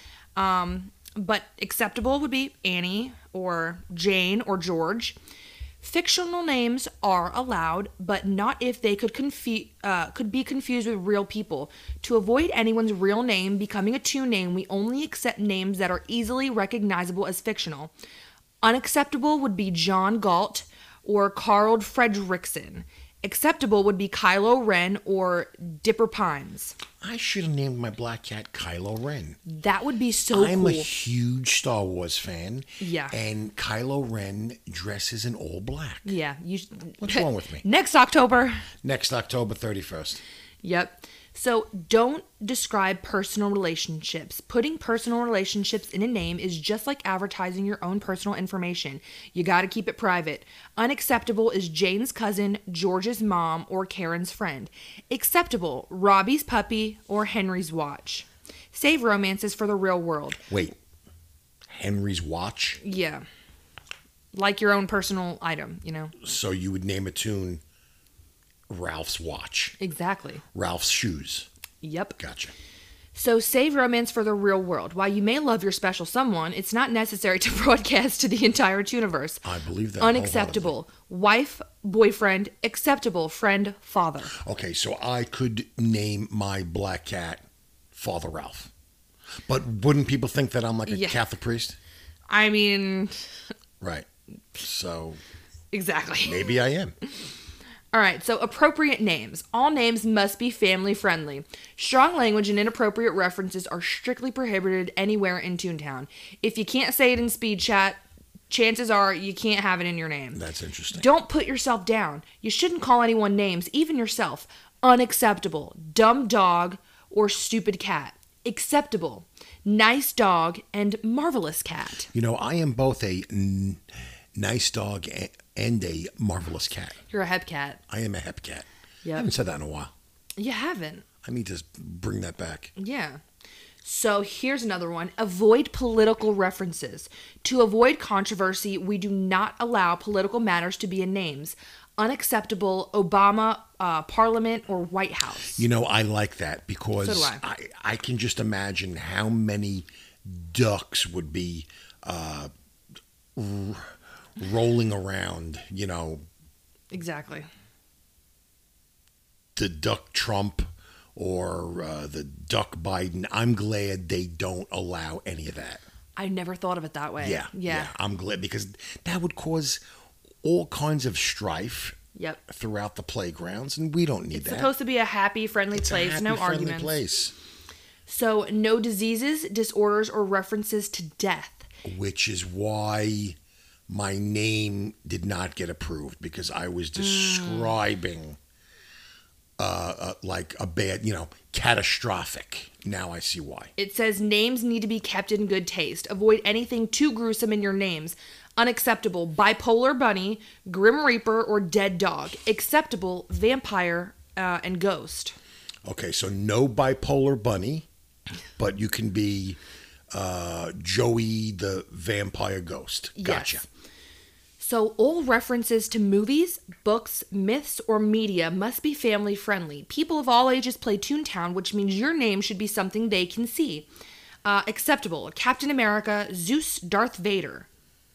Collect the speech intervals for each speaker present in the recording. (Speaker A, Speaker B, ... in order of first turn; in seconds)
Speaker A: 0.3-5.2, 5.8-17.9, 18.6-26.7, 29.4-30.9, 32.8-33.1, 36.0-38.6, 40.6-60.4, 62.8-63.2, 64.3-66.1, 69.8-70.4, 71.8-72.2, 73.1-79.4, 80.0-84.3, 90.9-91.2, 92.3-93.2, 95.7-96.4, 97.9-110.4, 110.9-122.1, 127.1-127.8, 129.0-129.3, 130.4-131.1, 132.8-133.2, 133.8-145.6, 147.0-147.4, 156.9-157.5, 166.2-167.9, 172.1-172.4, 174.3-176.9, 178.1-181.7, 186.9-187.8, 193.8-205.3, 213.2-213.6, 214.6-223.9, 224.4-227.7
Speaker B: 27.0-29.4, 30.3-36.1, 37.0-37.6, 38.8-40.2, 60.5-60.8, 61.7-62.8, 66.2-67.6, 68.7-69.8, 70.5-71.5, 72.2-72.5, 79.4-80.7, 84.3-88.7, 89.5-91.8, 93.8-95.2, 96.2-96.9, 110.3-111.1, 122.1-123.8, 124.3-127.0, 127.9-129.9, 131.2-132.7, 145.5-152.5, 153.3-156.2, 159.6-165.8, 167.2-169.8, 170.4-174.7, 175.7-177.3, 181.8-183.4, 183.9-188.4, 189.6-193.7, 205.8-207.9, 208.6-209.6, 210.1-213.6